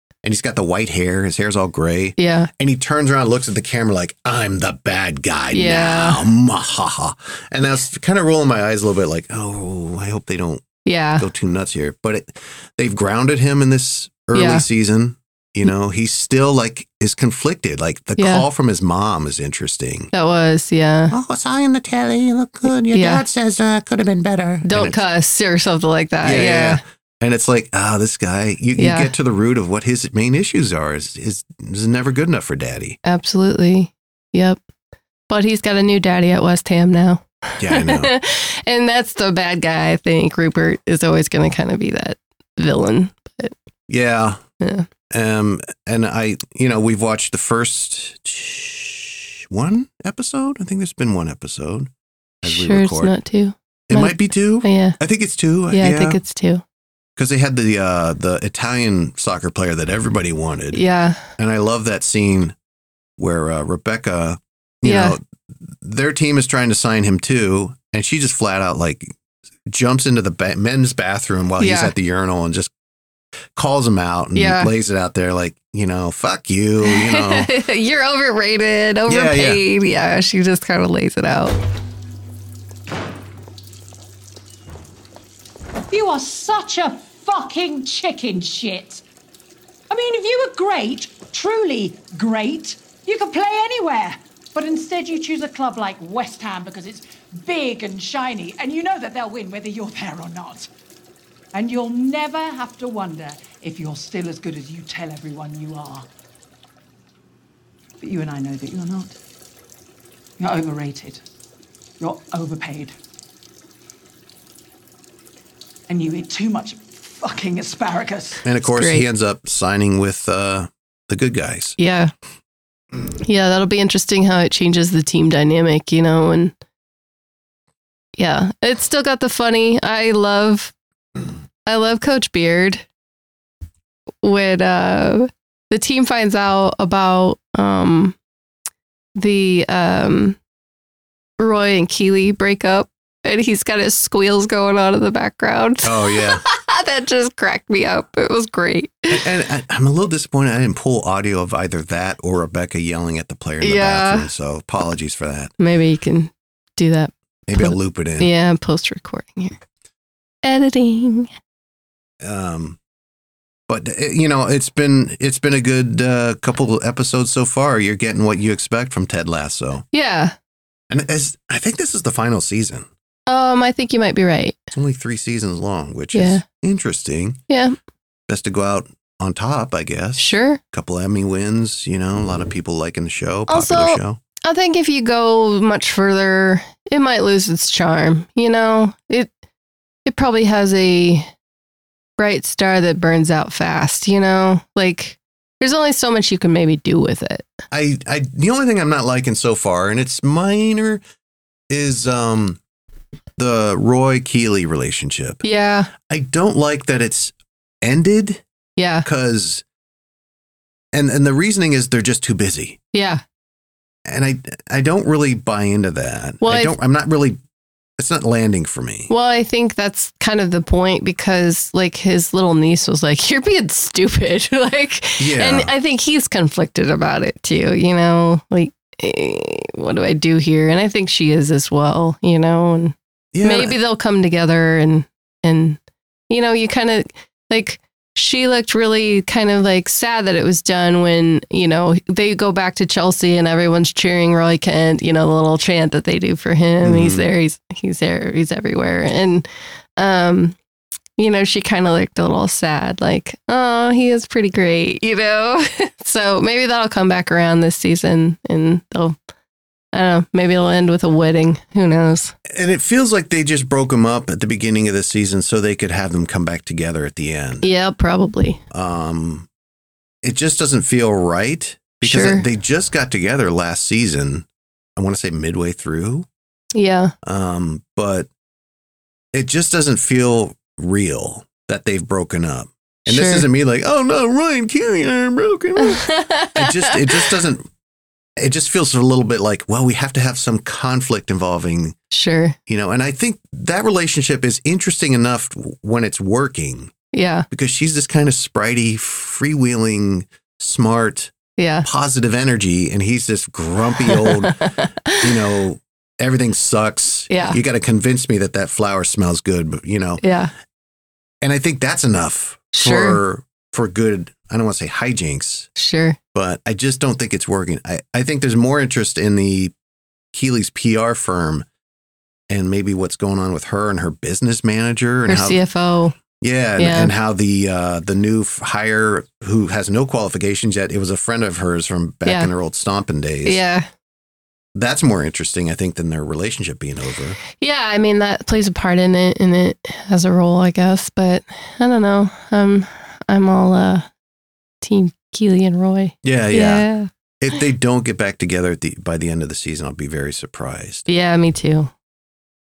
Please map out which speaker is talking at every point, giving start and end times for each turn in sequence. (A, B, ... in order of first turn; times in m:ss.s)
0:00.2-0:10.7 A
0:02.2-0:02.5 B
0:05.5-0:06.2 B
0:10.8-0:11.3 B
0:11.2-0:20.1 A
0:14.3-0:14.6 B
0:18.2-0:18.4 B
0:20.1-0:21.1 B
0:21.1-0:25.0 A
0:22.9-0:23.2 B
0:24.6-0:26.8 B
0:26.2-0:33.0 A
0:28.8-0:29.1 B
0:33.0-0:34.6 B
0:35.3-0:43.5 B
0:37.6-0:38.1 A
0:43.9-0:44.4 A
0:44.6-0:44.9 B
0:45.1-0:51.9 A
0:52.4-0:53.1 A
0:52.4-0:55.0 B
0:53.9-0:56.2 A
0:55.7-0:56.6 B
0:57.2-1:00.8 A
1:00.7-1:01.3 B
1:01.4-1:02.6 A
1:03.2-1:09.1 A
1:04.8-1:05.2 B
1:09.7-1:12.7 A
1:11.6-1:11.9 B
1:13.6-1:17.5 A
1:14.4-1:14.7 B
1:16.8-1:21.6 B
1:19.1-1:19.6 A
1:25.9-1:29.0 C
1:29.9-1:40.7 C
1:41.5-1:46.1 C
1:48.0-1:49.2 C
1:50.4-1:51.2 C
1:52.0-1:52.9 C
1:55.9-1:58.4 C
1:58.4-2:01.8 A
1:58.6-1:59.1 B
2:01.8-2:02.1 B
2:03.2-2:06.5 B
2:08.2-2:10.7 B
2:11.7-2:12.8 B
2:14.2-2:18.2 B
2:19.2-2:20.4 B
2:21.4-2:29.2 B
2:25.8-2:26.4 A
2:29.1-2:35.5 A
2:33.6-2:34.3 B
2:35.6-2:39.6 B
2:37.5-2:38.3 A
2:40.4-2:41.3 B
2:42.2-2:42.8 A
2:43.7-2:49.8 A
2:49.9-2:50.4 B
2:50.9-2:52.9 A
2:53.3-2:54.6 B
2:54.7-2:57.4 A
2:56.1-2:56.4 B
2:57.5-2:57.8 B
2:58.3-3:04.2 A
3:00.2-3:00.6 B
3:03.5-3:09.3 B
3:10.1-3:11.3 B
3:12.2-3:17.5 B
3:17.7-3:21.0 A
3:21.7-3:22.6 A
3:23.4-3:25.4 A
3:25.4-3:25.9 B
3:26.0-3:28.4 A
3:28.8-3:29.1 B
3:29.0-3:29.6 A
3:30.9-3:32.8 A
3:32.9-3:33.2 B
3:34.1-3:37.4 A
3:36.4-3:36.8 B
3:38.0-3:39.1 A
3:39.1-4:10.6 B
3:45.2-3:45.7 A
3:53.3-3:53.8 A
4:06.8-4:07.2 A
4:11.2-4:19.2 B
4:19.9-4:22.3 B
4:22.5-4:27.7 A
4:27.6-4:28.6 B
4:28.7-4:29.5 A
4:30.2-4:36.3 A
4:32.0-4:32.4 B
4:36.7-4:37.1 B
4:37.2-4:38.3 A
4:39.3-4:47.7 A
4:43.1-4:43.5 B
4:45.8-4:47.3 B
4:48.4-4:52.0 A
4:52.1-4:52.6 B
4:52.7-4:56.9 A
4:57.1-4:57.5 B
4:57.5-5:10.2 A
5:01.6-5:01.9 B
5:04.1-5:05.2 B
5:07.3-5:07.6 B
5:10.2-5:10.5 B
5:11.4-5:15.7 A
5:12.7-5:13.2 B
5:15.8-5:16.2 B
5:16.4-5:19.7 A
5:20.3-5:21.7 A
5:22.5-5:25.6 A
5:25.3-5:26.2 B
5:26.4-5:33.6 A
5:26.8-5:27.1 B
5:33.4-5:33.9 B
5:34.7-5:37.4 A
5:37.6-5:44.1 B
5:44.8-5:47.1 B
5:46.2-5:46.9 A
5:47.4-5:51.1 A
5:51.1-5:51.9 B